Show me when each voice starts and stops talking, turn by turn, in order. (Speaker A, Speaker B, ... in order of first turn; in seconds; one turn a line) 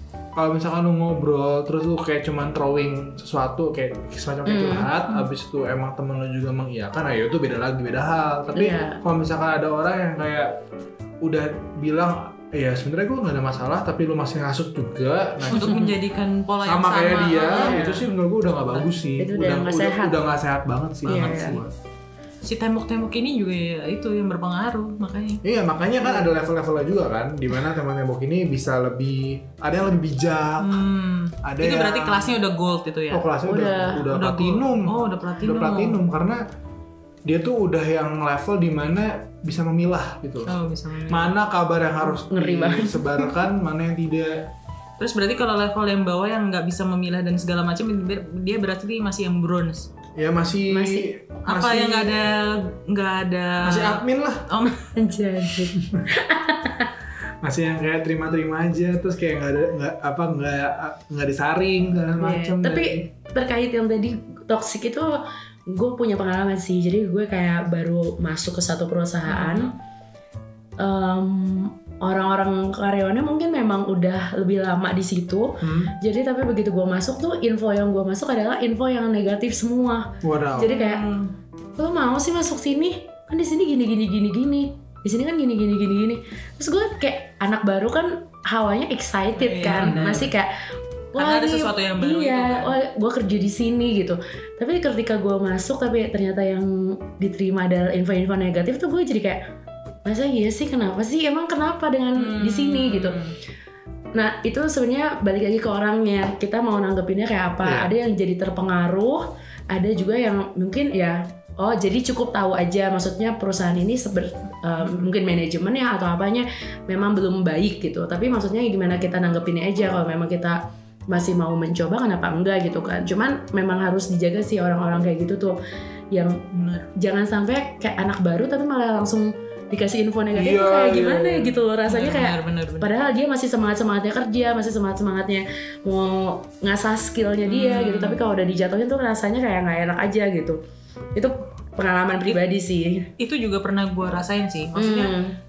Speaker A: 0.3-10.6
Speaker B: 4.5-4.9
Speaker B: 8.5-9.0
Speaker A: 11.2-15.9
Speaker C: 15.5-18.1
Speaker B: 15.5-15.9
Speaker A: 16.6-21.7
Speaker B: 17.5-18.0
Speaker B: 19.2-20.2
Speaker B: 21.0-21.6
Speaker C: 21.1-21.5
Speaker C: 22.4-25.4
Speaker A: 25.4-30.8
Speaker B: 26.0-26.3
Speaker C: 30.6-33.2
Speaker A: 31.4-32.4
Speaker A: 33.1-36.4
Speaker B: 33.4-34.0
Speaker C: 34.1-36.0
Speaker A: 37.2-40.5
Speaker C: 40.4-41.3
Speaker A: 41.1-44.5
Speaker B: 42.0-43.2
Speaker C: 45.0-49.9
Speaker A: 50.1-52.2
Speaker B: 50.7-51.1
Speaker C: 51.5-54.9
Speaker A: 53.6-54.5
Speaker B: 54.9-56.9
Speaker A: 55.8-56.0
Speaker A: 57.4-63.1
Speaker B: 62.2-69.7
Speaker C: 69.2-69.7
Speaker B: 70.8-81.0
Speaker A: 75.6-75.9
Speaker A: 80.2-80.7
Speaker C: 80.7-81.3
Speaker B: 81.8-90.6
Speaker C: 89.4-90.3
Speaker A: 89.6-90.3
Speaker C: 91.1-92.7
Speaker B: 91.1-99.4
Speaker B: 100.0-103.2
Speaker C: 102.2-103.3
Speaker B: 104.1-125.5
Speaker A: 107.6-107.9
Speaker C: 114.8-115.0
Speaker B: 126.1-126.4
Speaker C: 126.5-126.9
Speaker B: 126.9-140.6
Speaker A: 130.3-131.6
Speaker C: 131.8-132.9
Speaker C: 137.4-138.2
Speaker B: 141.1-143.1
Speaker C: 143.2-145.2
Speaker B: 144.8-145.3